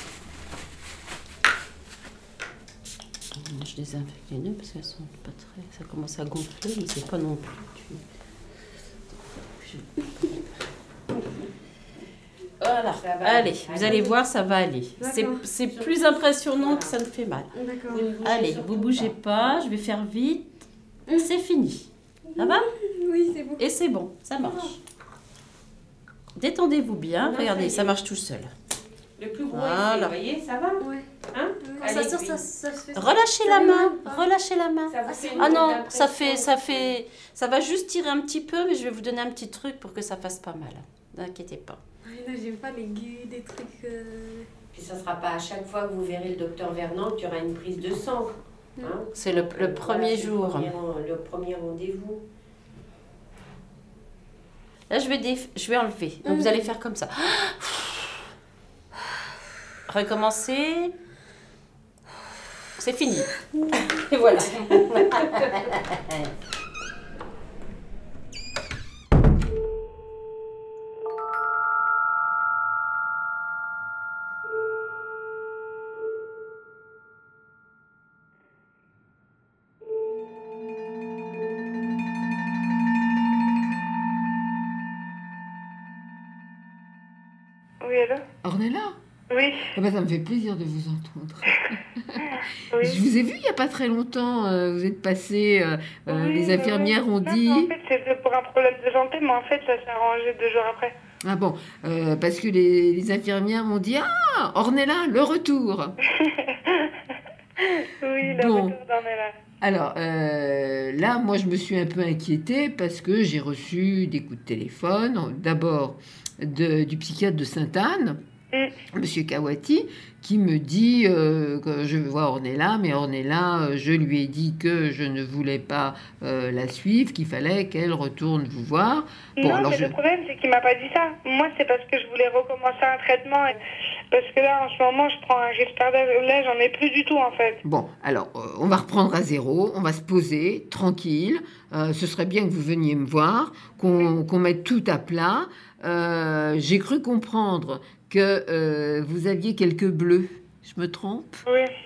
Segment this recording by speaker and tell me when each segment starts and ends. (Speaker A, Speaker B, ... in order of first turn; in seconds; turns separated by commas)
Speaker A: 3.3-8.0, Speaker A: 9.6-10.4, Speaker A: 12.6-17.5, Speaker B: 12.8-14.2, Speaker C: 15.0-15.4, Speaker B: 15.6-17.0, Speaker C: 17.6-18.1, Speaker B: 17.9-19.6, Speaker A: 18.2-20.4, Speaker A: 21.1-22.7, Speaker C: 22.3-23.6, Speaker A: 23.6-24.8, Speaker C: 24.5-24.7, Speaker A: 26.4-28.5, Speaker B: 27.2-27.9, Speaker B: 29.2-32.4, Speaker A: 29.5-30.2, Speaker C: 30.8-31.1, Speaker C: 31.6-34.3, Speaker A: 31.8-41.8, Speaker B: 34.9-37.0, Speaker C: 35.0-35.8, Speaker C: 42.0-44.5, Speaker B: 44.7-52.2, Speaker A: 49.1-50.8, Speaker A: 54.9-58.1, Speaker C: 56.3-56.5, Speaker A: 59.9-60.9, Speaker A: 62.8-63.3, Speaker A: 64.0-66.2, Speaker D: 87.8-88.2, Speaker E: 88.4-89.0, Speaker D: 89.3-89.7, Speaker E: 89.7-97.7, Speaker D: 92.7-93.0, Speaker D: 96.1-100.9, Speaker E: 101.2-106.0, Speaker D: 106.2-109.4, Speaker E: 108.2-108.8, Speaker E: 109.6-118.2, Speaker E: 118.9-130.0, Speaker D: 129.4-133.6, Speaker D: 134.1-137.6, Speaker E: 137.6-151.4, Speaker D: 151.5-151.7